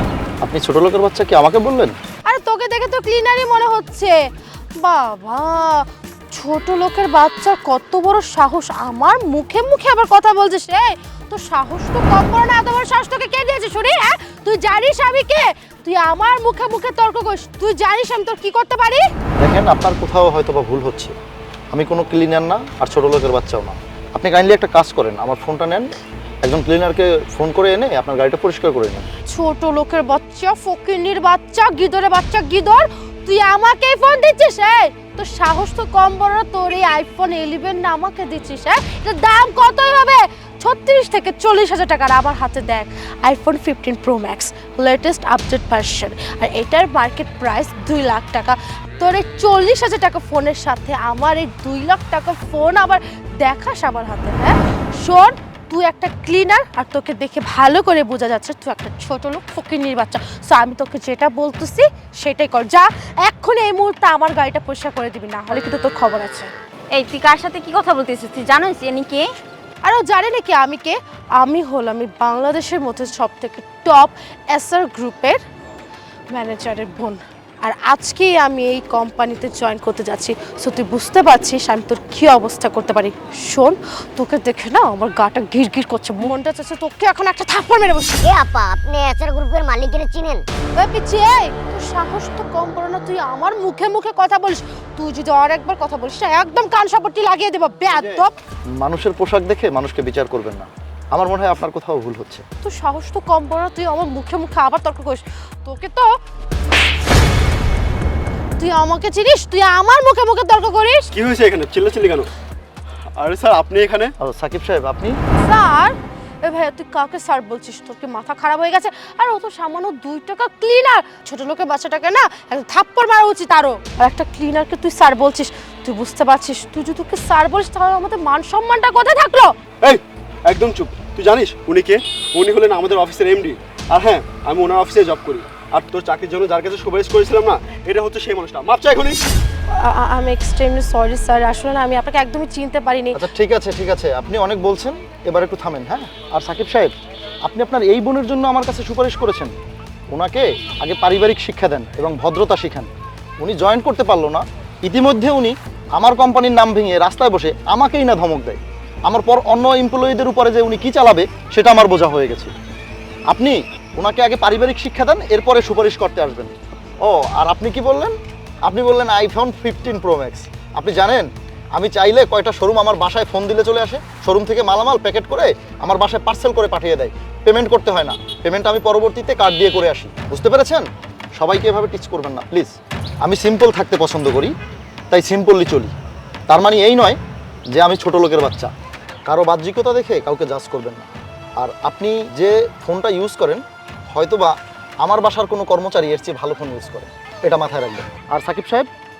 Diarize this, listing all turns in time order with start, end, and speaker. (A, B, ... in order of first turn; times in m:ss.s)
0:00.4-0:02.0 A
0:02.3-0:04.2 B
0:04.8-0:19.0 B
0:19.4-0:21.1 A
0:21.7-0:25.9 A
0:26.4-0:29.1 A
0:29.3-1:06.5 B
1:06.9-1:09.3 C
1:09.8-1:15.4 B
1:16.3-1:28.2 B
1:28.2-1:30.4 D
1:30.7-1:38.3 B
1:37.9-1:38.3 A
1:38.8-1:42.4 A
1:42.6-1:46.2 B
1:48.6-1:51.1 B
1:51.1-1:52.3 E
1:53.2-1:54.1 E
1:54.2-1:55.2 A
1:55.4-2:09.5 B
2:09.8-2:19.2 E
2:19.7-2:23.2 B
2:23.1-2:26.9 A
2:27.4-2:29.5 A
2:30.1-2:42.5 A
2:43.3-3:04.5 A
3:05.1-3:05.9 A
3:06.5-3:07.2 A
3:07.7-3:08.7 A
3:09.2-3:18.9 A